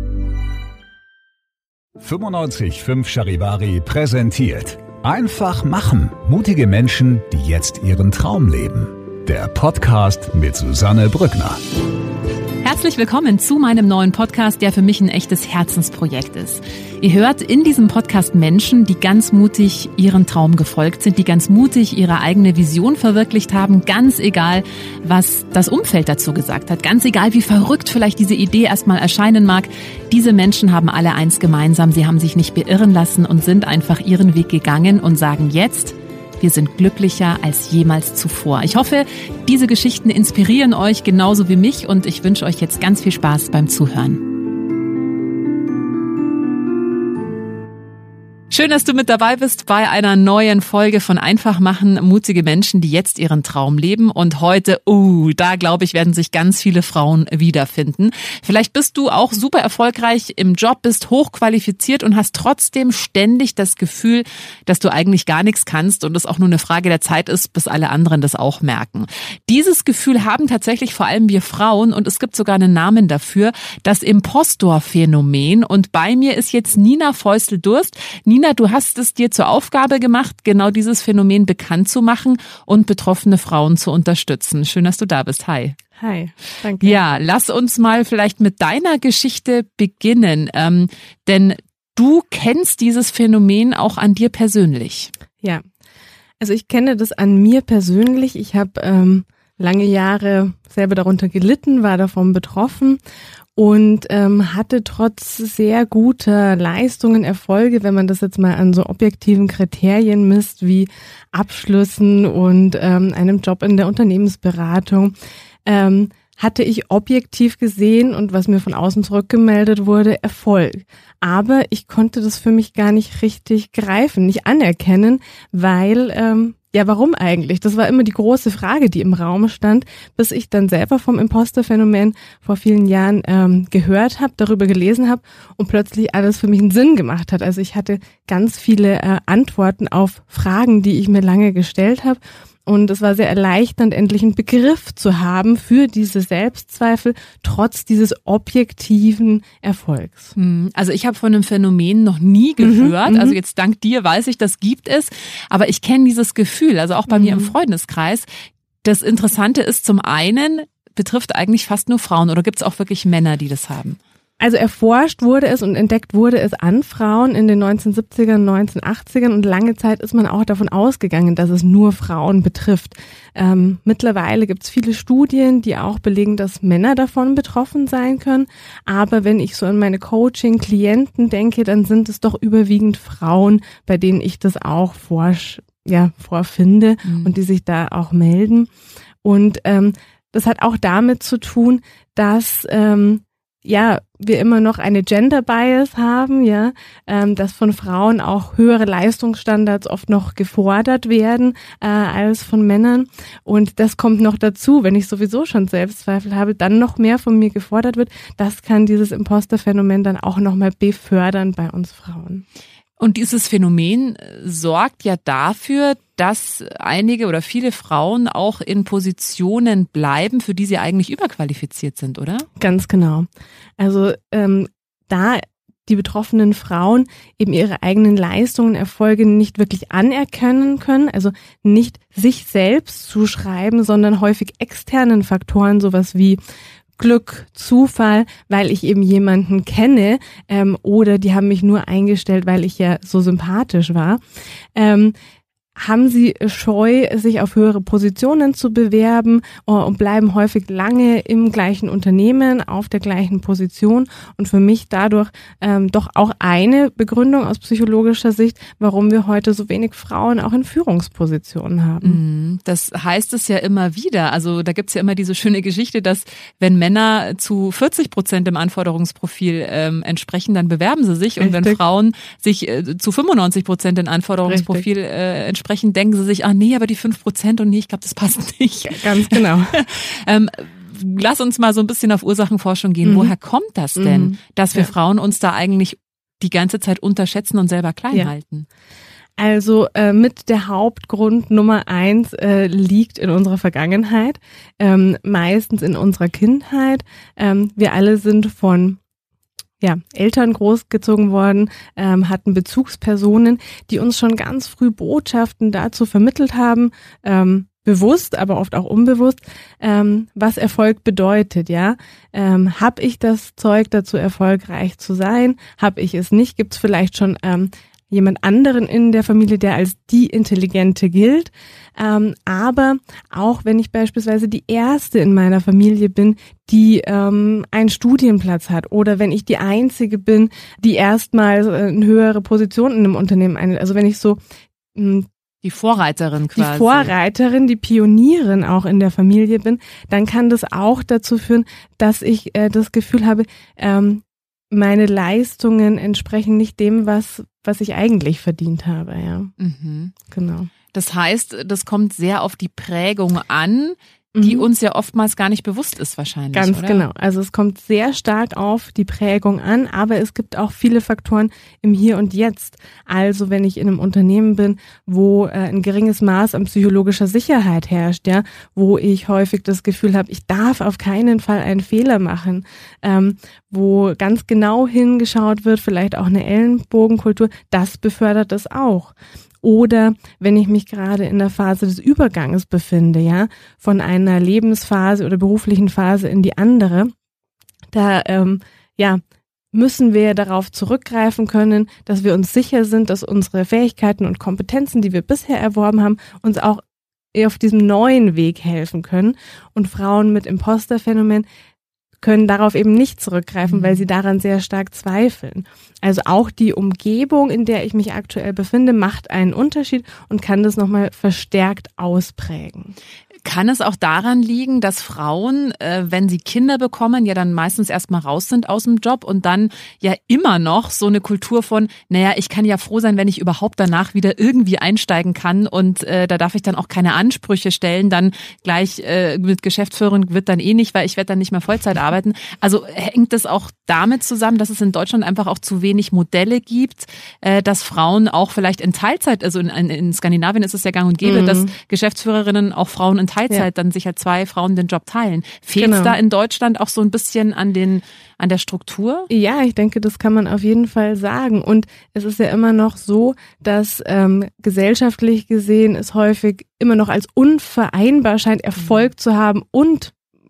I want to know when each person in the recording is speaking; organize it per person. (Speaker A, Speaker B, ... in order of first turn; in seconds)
Speaker A: 2.0-11.6
Speaker B: 12.6-44.3, 48.5-85.8, 86.8-95.1, 150.3-158.3, 158.8-164.0, 187.0-187.3, 213.0-222.5, 262.0-288.6, 335.6-337.1, 349.6-350.1, 350.9-357.0, 403.7-404.0, 413.4-449.3
Speaker C: 86.0-87.0, 96.4-103.0, 103.5-115.1, 115.7-150.3, 152.6-153.4, 157.1-157.5, 164.4-188.7, 189.2-212.4, 222.6-223.3, 223.8-236.4, 237.0-244.2, 244.8-245.1, 245.8-262.2, 271.4-271.8, 274.5-274.8, 278.9-279.8, 283.0-283.3, 284.0-284.9, 289.4-299.0, 299.8-334.4, 334.9-335.3, 336.6-349.5, 350.3-350.7, 354.3-354.7, 356.5-387.1, 387.9-389.2, 389.7-396.8, 397.3-401.4, 402.2-412.9, 441.2-441.7, 445.8-446.1, 449.3-460.1